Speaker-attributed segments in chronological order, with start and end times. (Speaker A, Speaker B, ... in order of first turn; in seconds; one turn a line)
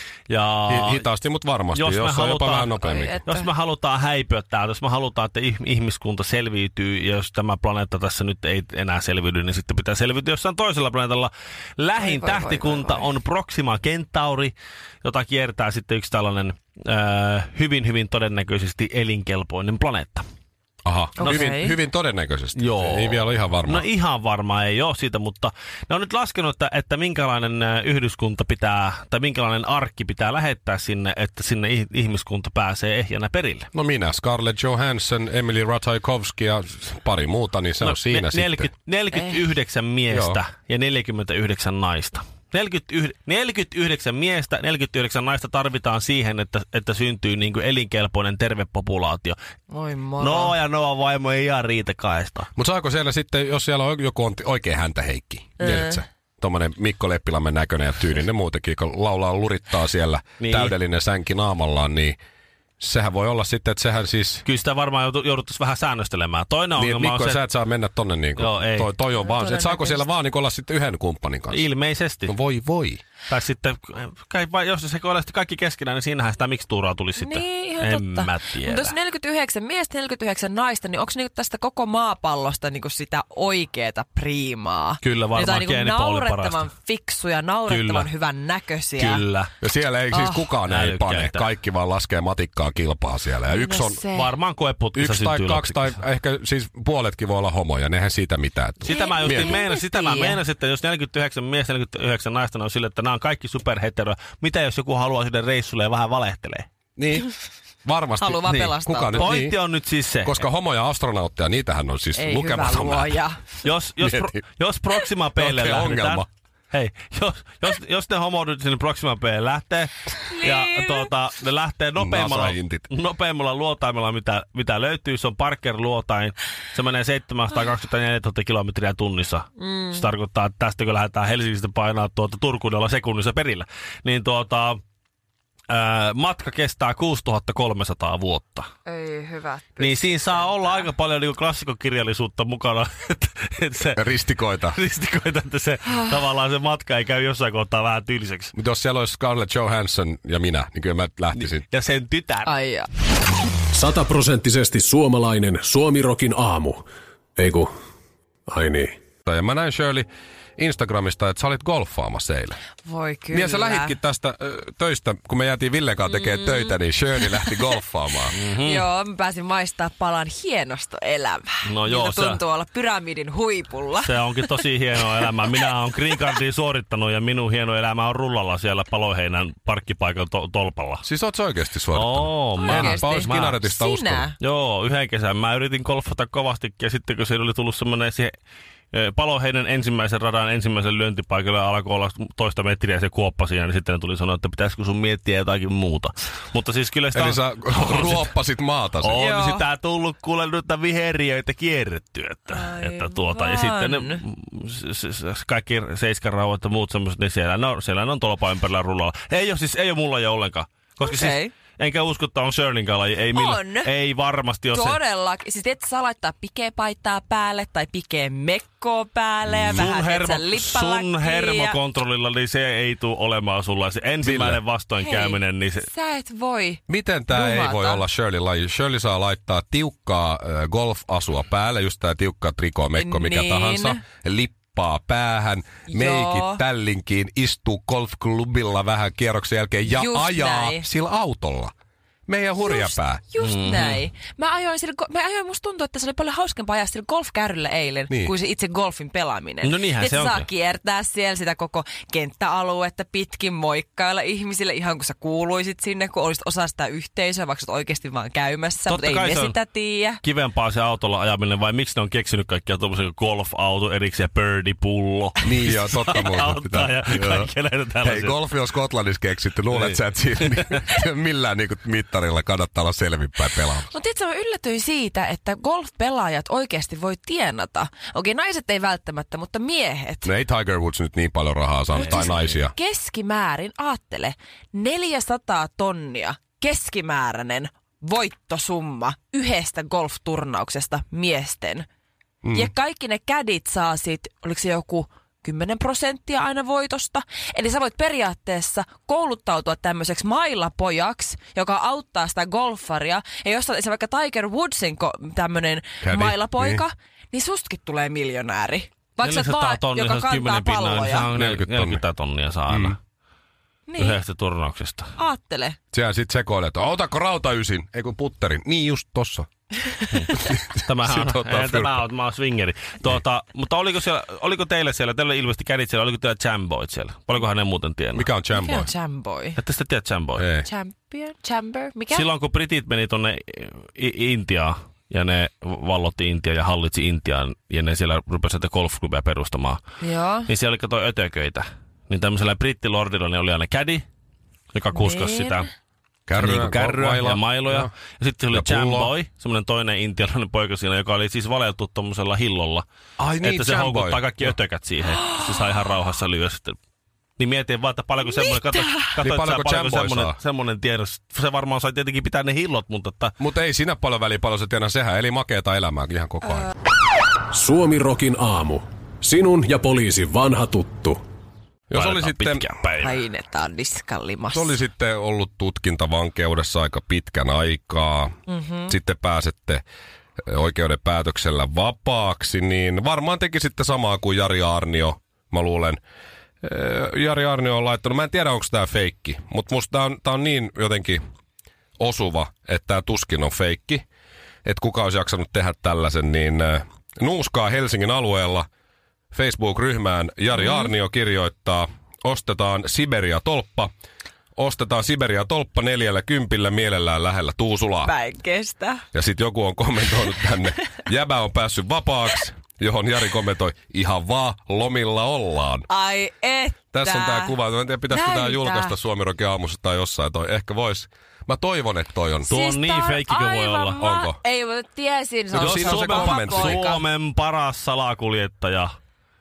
Speaker A: 0.3-1.0
Speaker B: 0.7-3.2
Speaker A: 1.7-20.2
Speaker C: 2.8-3.5
Speaker C: 12.0-13.1
Speaker B: 20.9-23.9
Speaker C: 21.2-21.8
Speaker A: 22.6-33.7
Speaker B: 33.7-38.7
Speaker A: 37.8-49.4
Speaker B: 40.1-40.4
Speaker C: 49.7-50.5
Speaker A: 50.2-52.5
Speaker B: 52.6-62.2
Speaker C: 55.6-56.0
Speaker A: 60.4-60.8
Speaker B: 62.8-64.4
Speaker A: 64.4-67.5
Speaker B: 66.8-71.7
Speaker A: 68.4-68.9
Speaker C: 69.2-70.1
Speaker A: 71.5-72.3
Speaker B: 72.3-73.0
Speaker A: 73.3-79.0
Speaker C: 77.2-89.2
Speaker A: 85.0-86.7
Speaker A: 87.7-88.1
Speaker A: 89.0-89.5
Speaker B: 89.6-94.0
Speaker C: 90.1-90.5
Speaker A: 90.7-91.5
Speaker C: 93.5-94.3
Speaker A: 94.1-96.0
Speaker B: 95.0-99.5
Speaker A: 98.8-106.7
Speaker C: 98.9-100.4
Speaker B: 107.0-107.3
Speaker B: 107.8-109.5
Speaker C: 108.2-109.4
Speaker A: 108.5-110.5
Speaker B: 110.2-113.2
Speaker C: 112.2-113.5
Speaker A: 113.6-134.8
Speaker B: 114.0-114.4
Speaker B: 115.4-116.3
Speaker C: 120.3-121.1
Speaker B: 122.0-122.9
Speaker C: 129.6-130.1
Speaker A: 135.7-138.7
Speaker C: 138.9-140.9
Speaker A: 139.8-144.2
Speaker B: 143.9-144.8
Speaker A: 144.7-148.6
Speaker B: 148.6-151.7
Speaker A: 151.3-152.5
Speaker C: 152.4-152.9
Speaker D: 153.7-156.8
Speaker D: 157.4-157.7
Speaker D: 158.5-158.9
Speaker B: 159.3-162.6
Speaker C: 162.8-163.9
Speaker B: 163.3-168.3
Speaker C: 166.1-167.6
Speaker A: 168.3-168.9
Speaker C: 168.6-174.5
Speaker A: 171.7-172.4
Speaker A: 174.0-181.0
Speaker B: 181.0-184.3
Speaker A: 181.9-183.6
Speaker C: 182.6-184.4
Speaker A: 184.4-188.3
Speaker A: 188.9-198.3
Speaker B: 197.1-199.2
Speaker A: 199.0-215.0
Speaker C: 199.1-199.7
Speaker C: 202.5-204.2
Speaker C: 211.0-211.5
Speaker C: 213.3-213.9
Speaker C: 214.7-221.8
Speaker B: 219.5-219.9
Speaker A: 219.7-225.9
Speaker B: 224.2-224.6
Speaker C: 225.0-228.0
Speaker B: 226.9-241.7
Speaker C: 233.0-234.0
Speaker C: 235.9-236.6
Speaker C: 239.9-240.8
Speaker B: 242.3-243.2
Speaker C: 242.6-260.2
Speaker A: 243.4-244.0
Speaker A: 249.6-250.5
Speaker A: 258.9-259.6
Speaker A: 260.2-268.4
Speaker B: 265.4-267.5
Speaker B: 268.0-273.9
Speaker A: 269.7-270.8
Speaker C: 273.9-280.3
Speaker B: 280.2-282.7
Speaker C: 281.9-291.9
Speaker A: 282.0-282.6
Speaker B: 292.4-292.7
Speaker C: 292.5-311.3
Speaker B: 306.0-306.9
Speaker A: 309.2-313.0
Speaker B: 311.3-312.0
Speaker B: 312.7-313.0
Speaker C: 313.9-314.2
Speaker A: 314.0-315.1
Speaker C: 315.2-315.8
Speaker B: 315.9-319.5
Speaker A: 320.1-328.3
Speaker B: 320.3-322.0
Speaker B: 328.1-328.9
Speaker C: 328.6-329.6
Speaker A: 329.6-330.4
Speaker B: 330.4-330.7
Speaker C: 330.6-332.3
Speaker A: 332.1-339.8
Speaker C: 340.0-340.5
Speaker A: 340.5-344.0
Speaker A: 344.7-345.7
Speaker C: 344.9-345.7
Speaker B: 346.3-347.9
Speaker A: 346.4-352.9
Speaker B: 348.5-349.1
Speaker B: 353.2-354.6
Speaker A: 353.4-356.8
Speaker C: 355.2-355.6
Speaker A: 357.4-363.4
Speaker C: 358.2-359.0
Speaker B: 359.2-360.4
Speaker B: 363.4-366.7
Speaker D: 367.5-371.2
Speaker B: 371.9-372.7
Speaker A: 371.9-373.1
Speaker C: 373.0-374.8
Speaker B: 374.5-378.4
Speaker C: 378.5-378.9
Speaker B: 378.9-379.8
Speaker B: 380.5-386.0
Speaker B: 386.6-391.2
Speaker B: 392.0-394.0
Speaker B: 394.6-398.7
Speaker B: 399.3-403.9
Speaker C: 400.6-400.9
Speaker B: 404.6-408.1
Speaker C: 408.0-409.0
Speaker B: 409.1-415.9
Speaker C: 415.9-417.6
Speaker B: 416.9-422.5
Speaker C: 418.1-419.0
Speaker C: 422.4-427.0
Speaker A: 422.5-424.0
Speaker B: 424.0-424.4
Speaker B: 425.5-426.8
Speaker A: 425.6-428.9